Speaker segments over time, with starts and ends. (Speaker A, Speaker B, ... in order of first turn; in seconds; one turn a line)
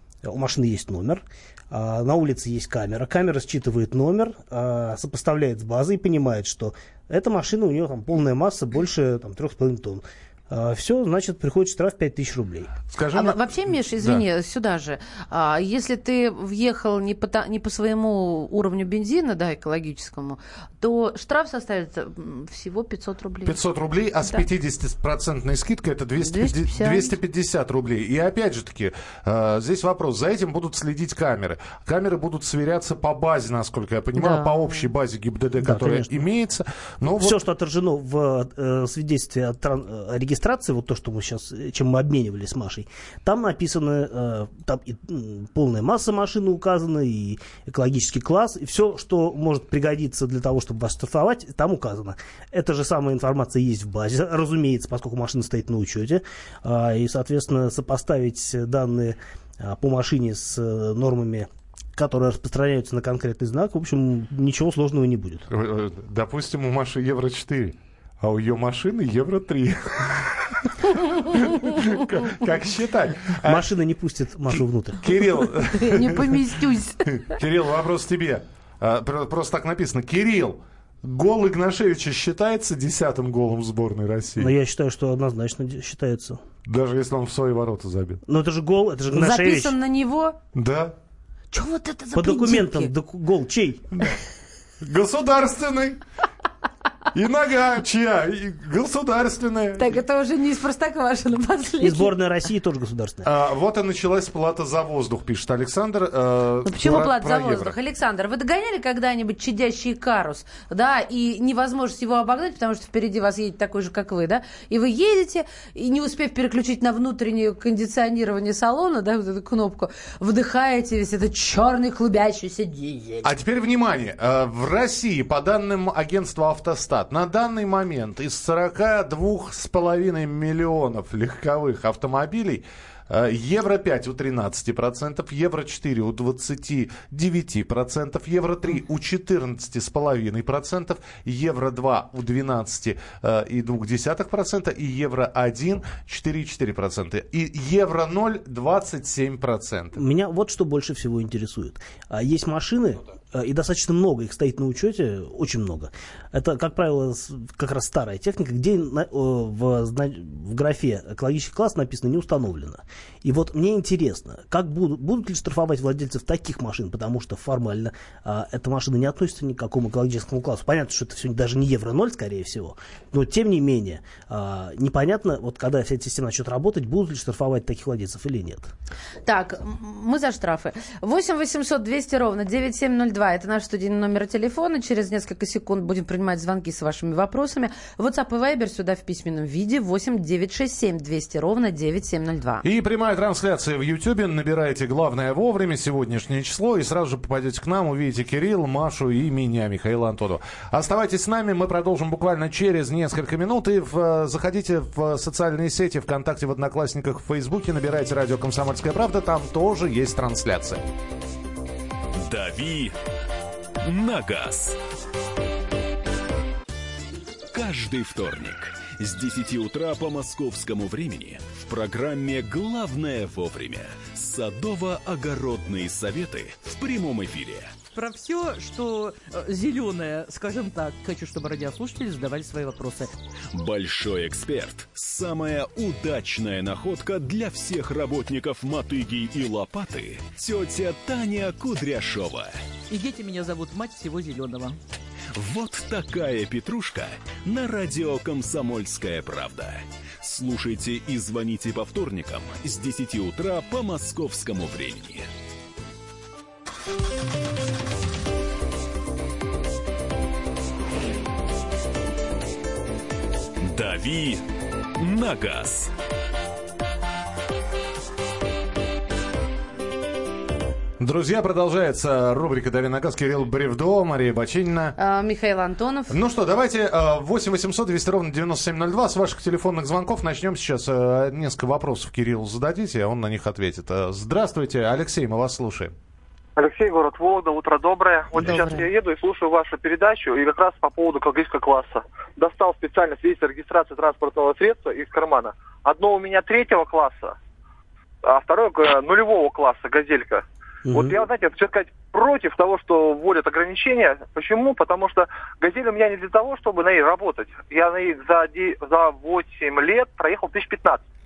Speaker A: 0.2-12.7
Speaker B: 12.9-14.2
Speaker C: 13.1-23.6
Speaker B: 23.4-37.4
Speaker C: 26.2-27.1
Speaker C: 34.2-34.9
Speaker A: 35.6-36.2
Speaker A: 37.0-65.5
Speaker B: 65.5-73.7
Speaker A: 73.4-75.0
Speaker B: 74.5-84.5
Speaker C: 75.6-77.4
Speaker A: 84.4-86.4
Speaker B: 86.7-88.2
Speaker A: 88.3-89.7
Speaker C: 89.1-90.4
Speaker B: 90.5-90.9
Speaker C: 91.5-92.9
Speaker A: 92.1-93.9
Speaker B: 94.8-96.0
Speaker B: 97.1-100.0
Speaker C: 99.8-102.1
Speaker A: 101.8-103.3
Speaker B: 103.2-107.7
Speaker C: 106.7-123.3
Speaker B: 123.2-150.0
Speaker A: 149.9-178.7
Speaker C: 179.2-192.6
Speaker B: 192.6-210.8
Speaker D: 212.2-212.9
Speaker D: 213.8-214.8
Speaker D: 217.5-227.8
Speaker E: 227.9-233.1
Speaker D: 233.5-242.6
Speaker E: 242.9-244.8
Speaker D: 245.3-255.3
Speaker D: 263.6-264.4
Speaker D: 265.0-265.9
Speaker B: 271.0-274.9
Speaker C: 275.0-276.2
Speaker B: 276.1-285.9
Speaker F: 286.6-297.4
Speaker C: 288.4-288.9
Speaker F: 298.2-311.0
Speaker A: 300.9-301.1